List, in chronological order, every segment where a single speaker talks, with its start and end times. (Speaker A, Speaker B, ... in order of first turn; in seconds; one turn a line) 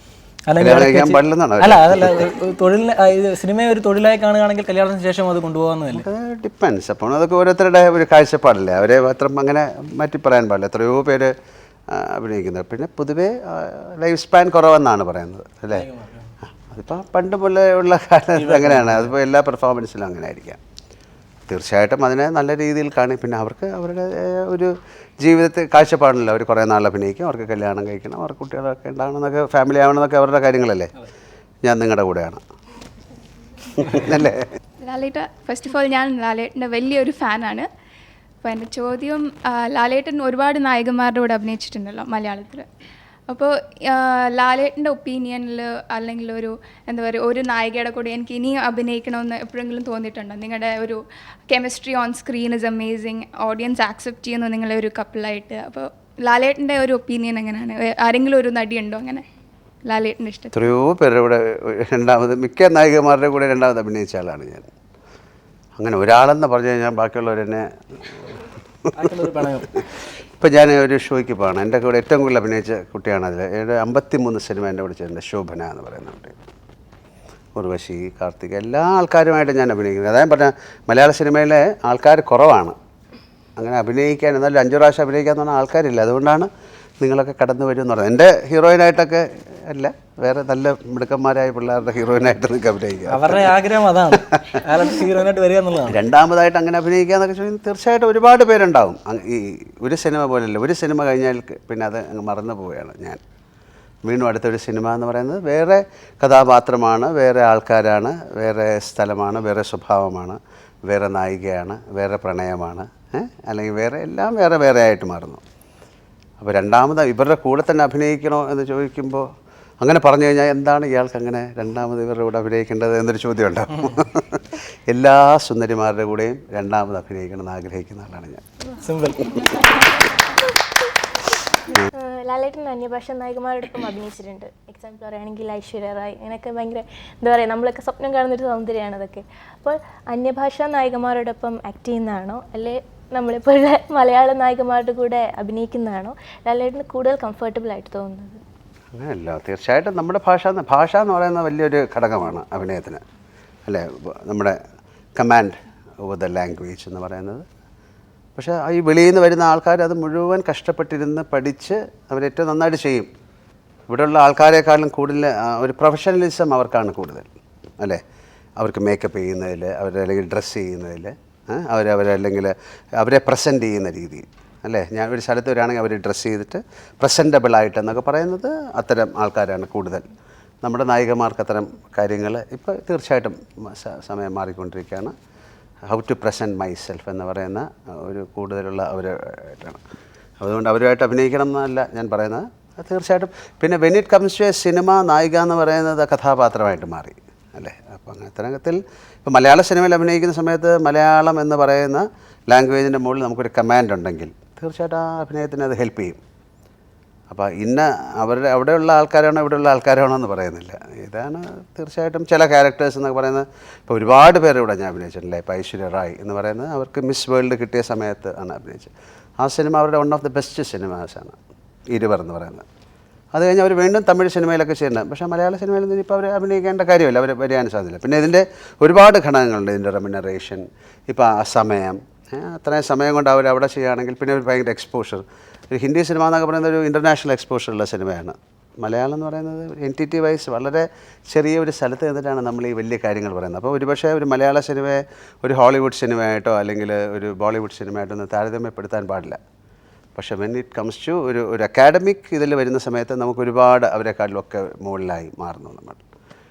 Speaker A: 0.5-6.1
Speaker B: 0.6-2.3
Speaker B: 5.9-11.3
Speaker B: 11.9-15.9
Speaker A: 15.7-16.3
Speaker B: 16.7-20.6
Speaker A: 18.4-19.1
Speaker B: 21.5-30.9
Speaker B: 31.6-32.4
Speaker B: 33.8-34.5
Speaker C: 34.8-37.7
Speaker C: 38.4-42.7
Speaker C: 43.3-59.2
Speaker C: 59.8-60.5
Speaker B: 60.5-64.7
Speaker B: 65.8-67.7
Speaker A: 68.9-69.7
Speaker B: 70.4-76.3
Speaker B: 77.5-82.8
Speaker B: 83.6-86.5
Speaker B: 87.0-93.6
Speaker A: 93.1-96.0
Speaker B: 95.9-103.2
Speaker B: 104.0-115.4
Speaker B: 116.4-119.3
Speaker B: 119.8-128.4
Speaker A: 128.8-129.5
Speaker D: 132.0-148.4
Speaker B: 148.9-153.0
Speaker B: 153.7-154.6
Speaker B: 155.2-157.4
Speaker B: 158.4-163.1
Speaker B: 163.9-167.3
Speaker B: 168.6-180.0
Speaker B: 180.6-185.1
Speaker B: 185.9-189.8
Speaker B: 190.4-206.2
Speaker B: 207.3-221.4
Speaker B: 221.9-222.7
Speaker B: 223.3-249.4
Speaker B: 250.2-256.0